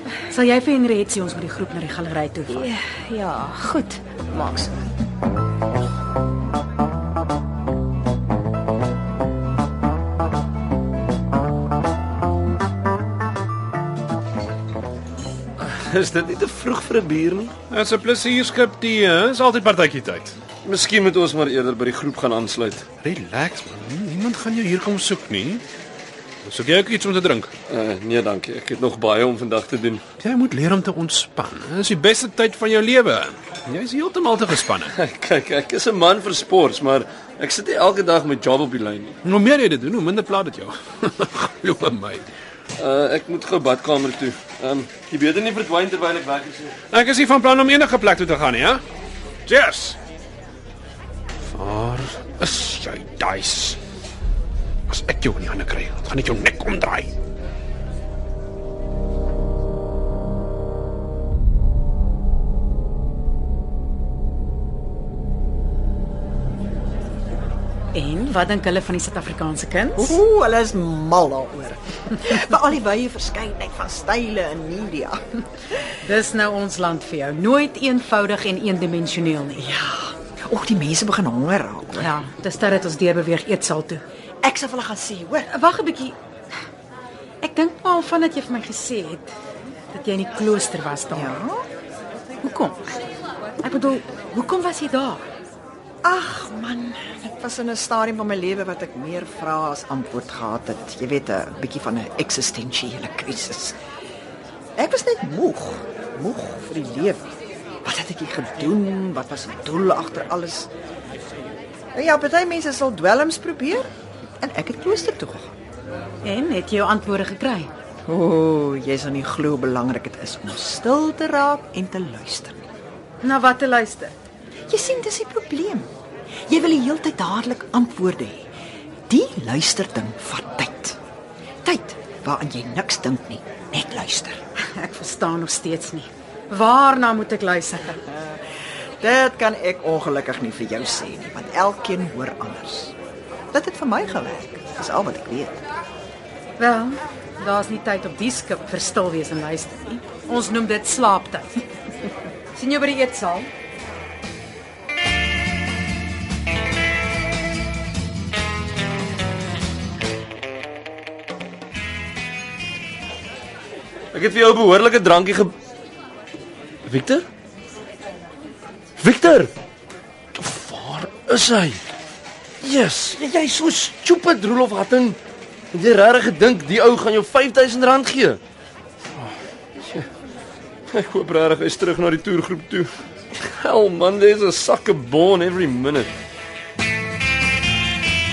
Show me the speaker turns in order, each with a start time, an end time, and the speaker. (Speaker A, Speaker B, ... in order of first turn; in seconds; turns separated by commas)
Speaker A: 0.3-2.7, Speaker B: 2.5-4.8, Speaker C: 15.6-17.5, Speaker D: 17.7-20.4, Speaker C: 20.6-22.8, Speaker D: 23.0-25.6, Speaker D: 26.4-27.5, Speaker C: 27.7-30.0, Speaker D: 30.2-34.9, Speaker C: 34.9-39.2, Speaker D: 39.2-42.3, Speaker C: 42.8-46.8, Speaker D: 46.9-48.8, Speaker D: 49.5-50.0, Speaker D: 51.5-53.8, Speaker D: 54.9-57.1, Speaker A: 67.9-70.2, Speaker E: 70.0-75.2, Speaker A: 76.0-79.7, Speaker E: 79.6-82.1, Speaker A: 82.0-84.0, Speaker E: 84.4-85.5, Speaker A: 85.5-86.2, Speaker A: 87.4-89.3, Speaker A: 89.9-91.3, Speaker E: 91.1-91.6, Speaker A: 92.4-92.9, Speaker A: 93.6-95.2, Speaker E: 96.0-103.8, Speaker E: 104.8-107.3, Speaker E: 107.8-110.7, Speaker E: 111.9-113.9, Speaker E: 114.4-115.5, Speaker A: 116.2-117.7, Speaker E: 118.1-122.7, Speaker A: 123.2-124.1, Speaker E: 124.7-125.9, Speaker E: 126.5-128.5, Speaker E: 129.1-131.0, Speaker E: 131.6-134.4, Speaker A: 134.8-138.0, Speaker E: 138.1-138.4, Speaker E: 139.0-142.9, Speaker E: 143.5-145.6, Speaker A: 146.6-151.7, Speaker A: 152.5-153.5, Speaker C: 164.1-165.5, Speaker C: 166.8-167.2, Speaker C: 169.0-169.5, Speaker C: 170.3-171.8, Speaker C: 172.6-175.2, Speaker C: 175.7-178.4, Speaker C: 179.2-180.1, Speaker C: 180.9-186.1